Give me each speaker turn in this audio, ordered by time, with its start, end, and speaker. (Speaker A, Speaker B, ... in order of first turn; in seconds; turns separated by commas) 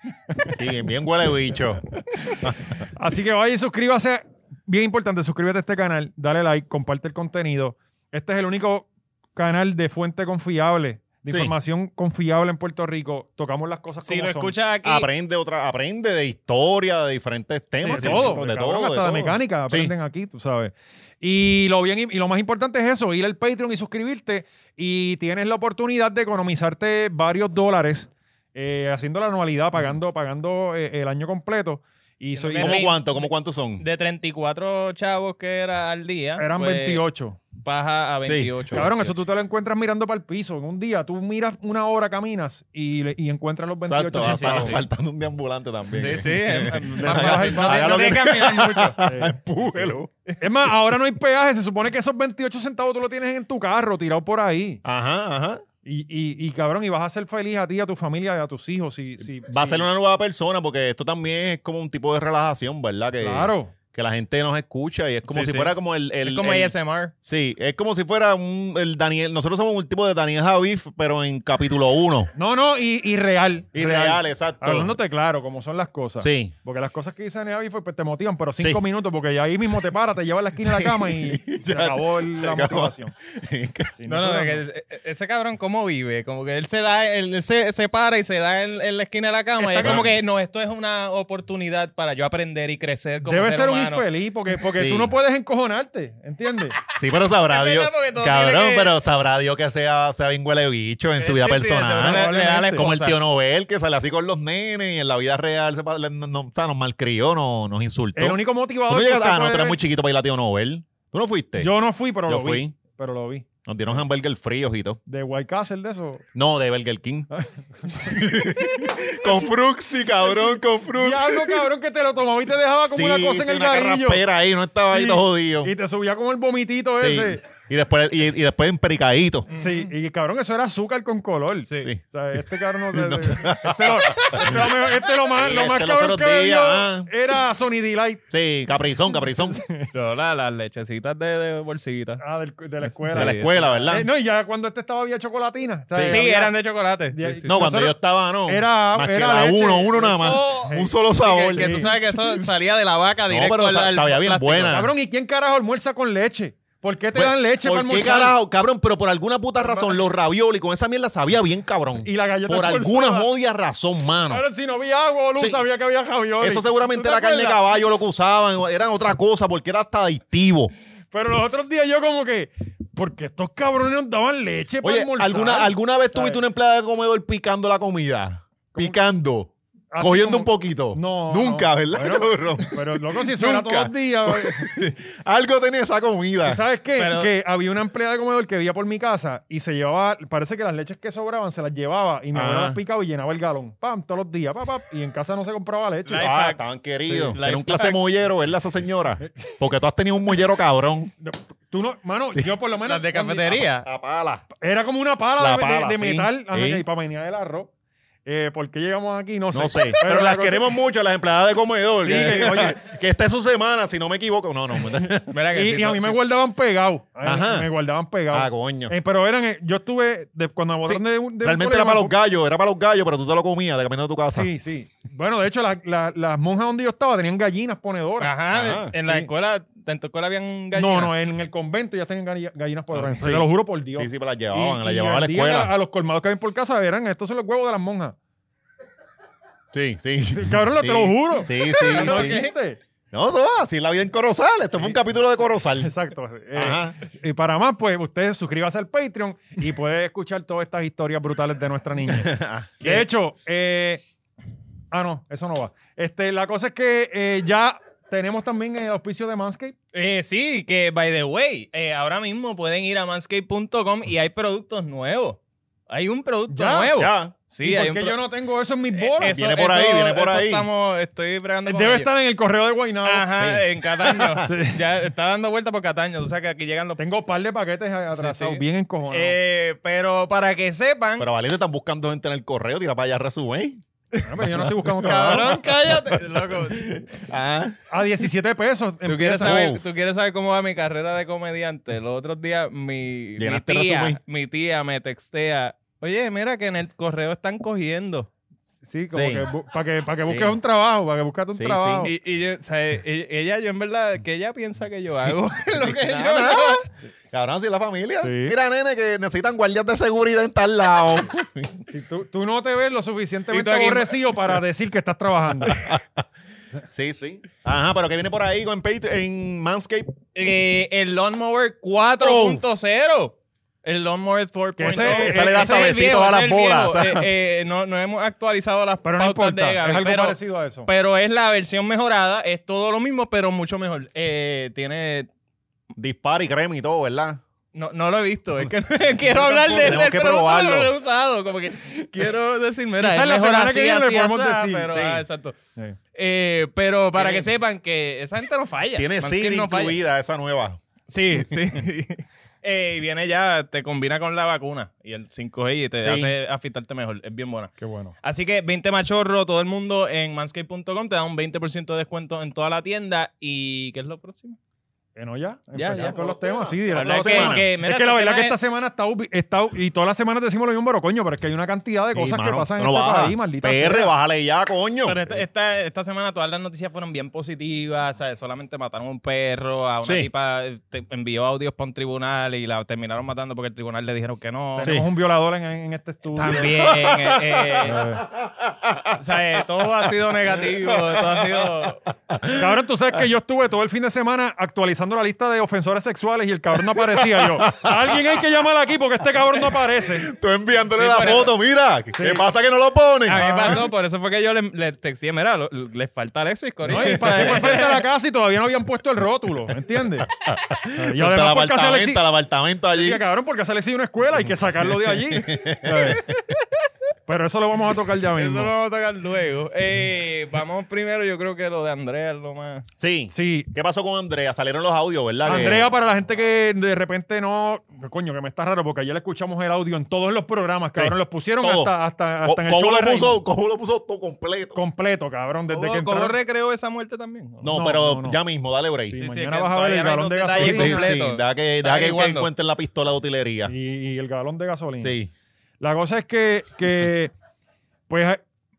Speaker A: 0.6-1.9, Speaker B: 2.1-14.6, Speaker A: 2.4-2.8, Speaker A: 11.3-11.5, Speaker C: 14.0-15.1, Speaker A: 14.8-19.9, Speaker B: 17.8-32.9, Speaker C: 17.9-18.3, Speaker C: 32.4-33.2, Speaker A: 32.6-33.8, Speaker C: 33.8-37.0, Speaker B: 36.4-37.4, Speaker C: 37.6-38.9, Speaker A: 38.2-39.1, Speaker B: 38.7-44.8, Speaker A: 43.9-50.1, Speaker C: 44.2-44.8, Speaker C: 45.9-49.0, Speaker B: 47.0-48.1, Speaker B: 49.0-49.4, Speaker B: 50.4-54.8, Speaker A: 54.8-55.6, Speaker B: 55.9-59.9, Speaker A: 59.4-72.3, Speaker B: 63.2-63.7, Speaker C: 65.2-67.1, Speaker B: 72.3-83.1, Speaker A: 73.7-74.9, Speaker A: 76.2-76.5, Speaker A: 80.6-84.0, Speaker B: 84.0-84.6, Speaker C: 84.1-94.1, Speaker B: 89.6-90.1, Speaker A: 89.8-90.1, Speaker B: 93.2-96.8, Speaker A: 94.7-95.1, Speaker A: 97.0-111.7, Speaker C: 97.5-98.9, Speaker C: 101.2-103.2, Speaker B: 102.0-102.9, Speaker B: 108.2-109.8, Speaker B: 111.6-113.5, Speaker A: 112.3-112.7, Speaker A: 113.7-115.0, Speaker B: 115.1-116.2, Speaker A: 116.3-117.3, Speaker B: 117.3-118.8, Speaker A: 117.9-121.6, Speaker B: 120.9-124.2, Speaker A: 122.8-125.7, Speaker B: 124.9-127.4, Speaker A: 127.0-129.5, Speaker C: 129.5-129.9, Speaker B: 129.5-138.2, Speaker C: 131.7-131.9, Speaker A: 131.8-134.8, Speaker A: 135.3-137.1, Speaker A: 138.3-139.6, Speaker B: 139.1-139.9, Speaker C: 139.9-142.2, Speaker B: 142.2-146.5, Speaker C: 142.9-143.9, Speaker A: 143.2-144.1, Speaker A: 145.9-146.2, Speaker C: 146.1-147.4, Speaker B: 147.1-150.8, Speaker A: 147.5-152.5, Speaker C: 150.2-154.8, Speaker B: 151.6-151.9, Speaker A: 153.3-154.9, Speaker B: 154.7-158.3, Speaker A: 157.2-164.4, Speaker B: 159.6-159.9, Speaker B: 162.0-163.3, Speaker B: 164.3-167.8, Speaker A: 165.4-165.7, Speaker A: 166.4-170.7, Speaker B: 171.1-176.4, Speaker A: 174.8-186.6, Speaker B: 179.9-184.7, Speaker B: 186.4-196.2, Speaker C: 187.0-187.3, Speaker A: 192.3-192.8, Speaker C: 196.1-198.0, Speaker A: 196.1-201.1, Speaker B: 201.2-203.7, Speaker C: 202.8-203.9, Speaker A: 203.7-204.4, Speaker B: 204.6-207.7, Speaker A: 205.4-206.8, Speaker B: 208.2-210.7, Speaker A: 209.5-215.3, Speaker B: 212.0-212.8, Speaker C: 215.3-216.2, Speaker B: 215.5-222.2, Speaker A: 217.2-217.7, Speaker A: 218.3-218.9, Speaker A: 220.8-224.5, Speaker B: 224.3-228.3, Speaker C: 228.2-231.2, Speaker A: 228.5-228.9, Speaker B: 229.0-229.3, Speaker B: 230.7-238.2, Speaker A: 233.2-235.7, Speaker A: 239.7-242.5, Speaker B: 240.3-242.8, Speaker C: 241.6-242.5, Speaker A: 243.1-245.9, Speaker B: 245.8-254.0, Speaker A: 246.6-247.0, Speaker A: 252.1-252.8, Speaker B: 254.9-259.8, Speaker C: 259.9-268.2, Speaker B: 266.5-266.9, Speaker A: 266.9-267.4, Speaker B: 267.6-269.4, Speaker C: 268.9-272.1, Speaker A: 269.2-270.7, Speaker B: 271.7-273.3, Speaker C: 273.1-277.0, Speaker A: 273.4-274.5, Speaker B: 274.4-274.8, Speaker B: 277.0-279.4, Speaker C: 278.1-281.3, Speaker A: 281.2-283.8, Speaker B: 284.2-285.6, Speaker A: 284.4-287.8, Speaker C: 285.0-287.1, Speaker B: 287.9-289.6, Speaker C: 289.1-298.3, Speaker A: 289.4-289.8, Speaker A: 293.4-294.2, Speaker B: 298.8-302.1, Speaker A: 299.1-299.5, Speaker A: 300.2-300.6, Speaker A: 301.5-302.1, Speaker C: 302.0-306.9, Speaker A: 305.8-311.8, Speaker B: 308.2-308.6, Speaker B: 311.9-315.9, Speaker C: 313.5-314.2, Speaker A: 315.6-316.2, Speaker A: 316.9-320.1, Speaker C: 320.4-335.3, Speaker A: 322.2-322.6, Speaker B: 324.8-326.1, Speaker A: 324.9-327.3, Speaker B: 329.0-330.9, Speaker A: 336.0-337.4, Speaker C: 337.7-345.6, Speaker B: 339.3-340.0, Speaker A: 339.8-340.9, Speaker B: 343.0-344.9, Speaker A: 344.9-345.3, Speaker C: 346.1-350.0, Speaker A: 347.1-347.5, Speaker A: 348.9-350.8, Speaker C: 351.1-364.6, Speaker A: 356.0-356.3, Speaker B: 357.8-358.1, Speaker B: 365.2-374.1, Speaker C: 365.8-368.6, Speaker A: 367.2-367.7, Speaker A: 372.1-375.4, Speaker C: 375.0-385.0, Speaker A: 380.0-380.3, Speaker B: 384.8-386.9, Speaker A: 384.8-385.1, Speaker C: 386.4-388.0, Speaker A: 386.7-389.2, Speaker B: 387.8-388.2, Speaker C: 389.1-392.1, Speaker A: 390.6-392.8, Speaker B: 392.6-400.3, Speaker A: 396.8-398.4, Speaker A: 399.5-403.8, Speaker C: 400.9-401.5, Speaker B: 402.1-402.4, Speaker C: 403.3-408.1, Speaker B: 403.3-403.9, Speaker B: 406.9-410.3, Speaker A: 406.9-407.8, Speaker A: 410.2-413.2, Speaker B: 411.0-412.2, Speaker B: 412.9-416.2, Speaker A: 414.4-416.4, Speaker B: 417.3-418.7, Speaker C: 418.4-422.9, Speaker A: 423.0-425.9, Speaker B: 423.3-423.7, Speaker B: 425.4-433.4, Speaker A: 430.9-434.8, Speaker B: 434.7-436.4, Speaker C: 435.7-437.7, Speaker A: 437.6-439.2, Speaker B: 437.7-438.4, Speaker C: 439.1-442.5, Speaker B: 439.1-441.1, Speaker A: 440.5-443.7, Speaker B: 443.7-445.2, Speaker A: 445.0-445.3, Speaker B: 445.8-447.3, Speaker B: 448.1-448.4